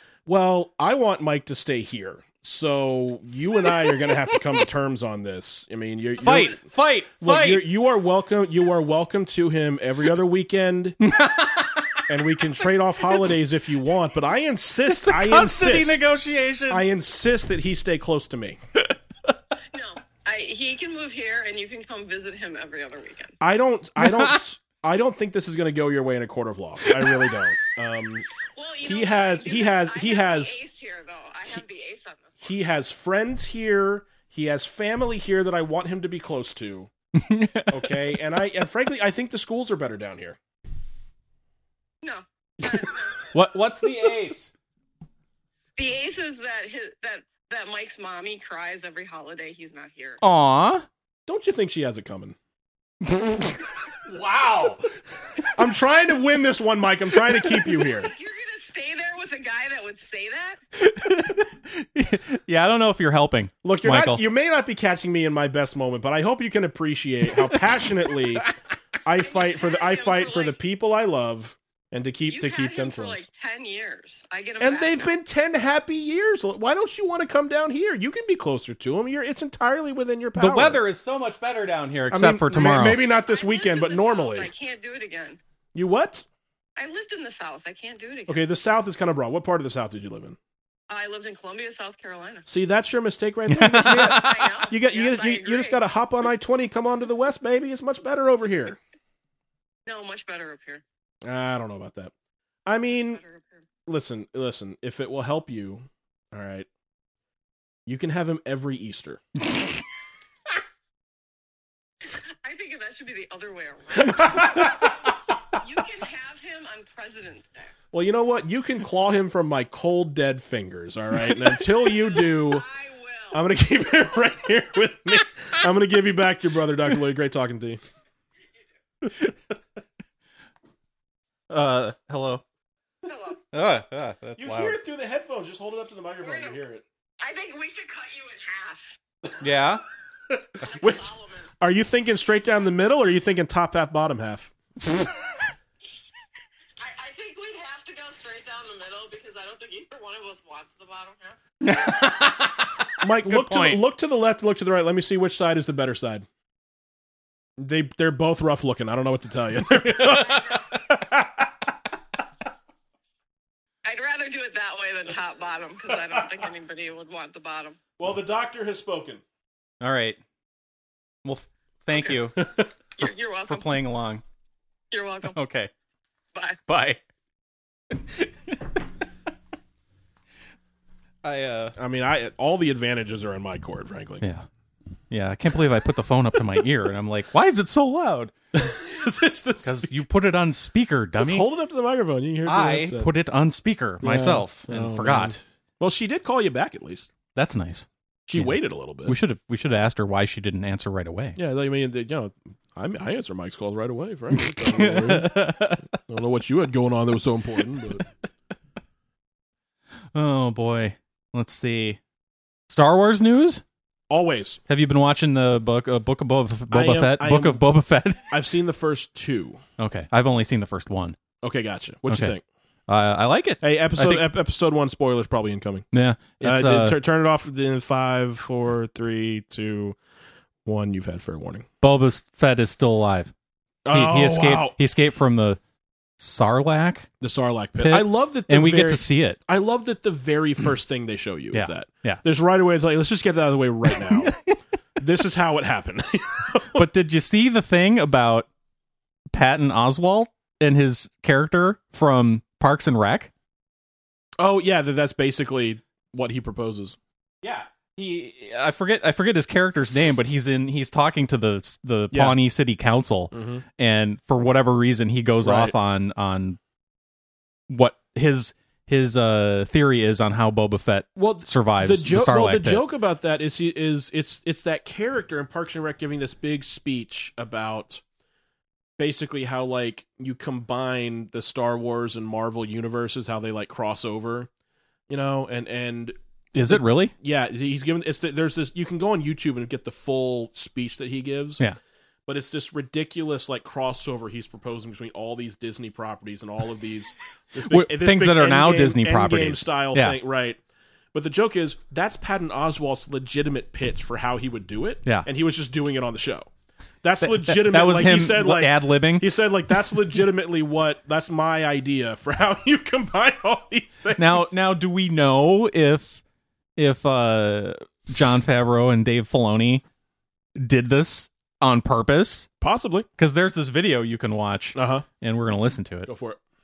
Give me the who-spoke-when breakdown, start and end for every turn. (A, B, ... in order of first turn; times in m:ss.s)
0:00.3-0:06.6 A
0:03.7-0:04.4 B
0:06.2-0:07.7 B
0:07.2-0:11.0 A
0:11.0-0:13.3 B
0:12.1-0:16.0 A
0:14.9-0:16.8 B
0:16.7-0:18.6 A
0:19.7-0:23.4 C
0:23.4-0:28.3 A
0:24.0-0:24.4 B
0:26.8-0:27.1 B
0:28.5-0:32.4 C
0:28.8-0:30.5 A
0:32.4-0:36.9 A
0:37.2-0:38.2 B
0:37.7-0:40.4 A
0:42.0-0:43.2 C
0:43.3-0:44.5 B
0:45.8-0:50.2 C
0:50.2-0:50.9 B
0:51.3-0:52.4 A
0:53.1-0:54.9 B
0:55.6-0:58.1 A
0:57.2-0:57.7 B
0:57.9-1:00.6 C
1:00.8-1:04.2 B
1:03.6-1:08.5 A
1:07.2-1:08.5 B
1:09.0-1:13.3 A
1:09.2-1:10.6 C
1:12.3-1:15.1 C
1:14.6-1:20.8 A
1:20.4-1:23.0 B
1:22.1-1:24.5 A
1:22.8-1:25.4 C
1:25.8-1:26.3 A
1:26.8-1:28.4 C
1:28.3-1:30.4 A
1:30.9-1:32.5 C
1:32.5-1:38.8 A
1:33.5-1:34.6 B
1:33.9-1:35.8 C
1:39.9-1:40.8 C
1:41.2-1:42.1 A
1:42.7-1:43.2 A
1:42.9-1:43.7 C
1:43.9-1:46.7 A
1:47.9-1:49.2 A
1:52.4-1:55.0 C
1:54.1-1:54.7 A
1:55.6-1:57.7 C
1:57.9-2:02.6 A
2:02.0-2:03.4 C
2:03.3-2:07.8 A
2:11.5-2:12.4 B
2:13.0-2:13.4 C
2:13.5-2:14.8 B
2:14.4-2:16.8 A
2:16.2-2:16.6 C
2:17.2-2:19.0 C
2:19.4-2:19.8 B
2:20.6-2:21.5 C
2:20.7-2:24.5 A
2:26.8-2:31.4 C
2:31.6-2:33.8 B
2:33.0-2:36.3 A
2:37.6-2:41.5 A
2:39.9-2:40.6 B
2:43.8-2:47.8 C
2:48.0-2:49.2 A
2:49.8-2:50.2 B
2:51.2-2:52.4 B
2:51.9-2:52.3 C
2:52.4-2:52.6 A
2:53.0-2:53.8 C
2:53.5-2:54.2 B
2:54.9-2:55.4 C
2:55.3-2:55.7 B
2:56.4-2:56.6 C
2:56.7-2:57.0 B
2:57.9-2:58.6 B
3:01.2-3:01.8 B
3:01.8-3:04.2 A
3:04.2-3:04.5 B
3:05.1-3:08.7 B
3:08.5-3:10.0 A
3:09.6-3:11.5 B
3:11.2-3:13.1 A
3:12.5-3:15.4 B
3:14.0-3:17.1 A
3:17.4-3:21.4 B
3:18.3-3:19.2 A
3:21.4-3:25.4 A
3:24.3-3:25.9 B
3:26.1-3:28.0 A
3:30.1-3:32.0 B
3:32.7-3:33.6 B
3:34.1-3:34.6 A
3:34.7-3:38.3 B
3:36.7-3:37.6 A
3:38.3-3:39.6 A
3:39.8-3:41.2 B
3:41.4-3:42.4 A
3:42.1-3:42.3 B
3:42.9-3:44.3 B
3:43.6-3:45.9 A
3:45.9-3:47.0 B
3:46.4-3:50.0 A
3:50.6-3:51.7 A
3:51.8-3:53.3 B
3:53.9-3:54.8 A
3:53.9-3:55.6 B
3:56.2-3:57.1 B
3:57.2-4:04.3 A
3:57.8-3:59.4 B
4:01.5-4:02.2 B
4:03.9-4:04.6 B
4:05.0-4:06.9 A
4:06.8-4:08.5 B
4:09.3-4:13.3 B
4:14.4-4:17.0 A
4:17.4-4:26.6 B
4:22.1-4:22.4 A
4:23.3-4:23.6 A
4:25.4-4:25.8 A
4:27.7-4:32.9 B
4:31.2-4:38.0 A
4:39.0-4:44.5 A
4:45.1-4:46.2 A
4:46.5-4:47.1 B
4:46.7-4:51.6 A
4:52.3-5:00.6 A
4:57.7-5:00.2 B
5:01.1-5:06.5 A
5:07.0-5:14.5 A
5:07.2-5:09.3 B
5:14.2-5:16.2 B
5:16.8-5:19.8 B
5:20.6-5:22.5 B
5:22.6-5:23.1 A
5:23.2-5:26.1 B
5:24.8-5:25.0 A
5:26.1-5:26.4 A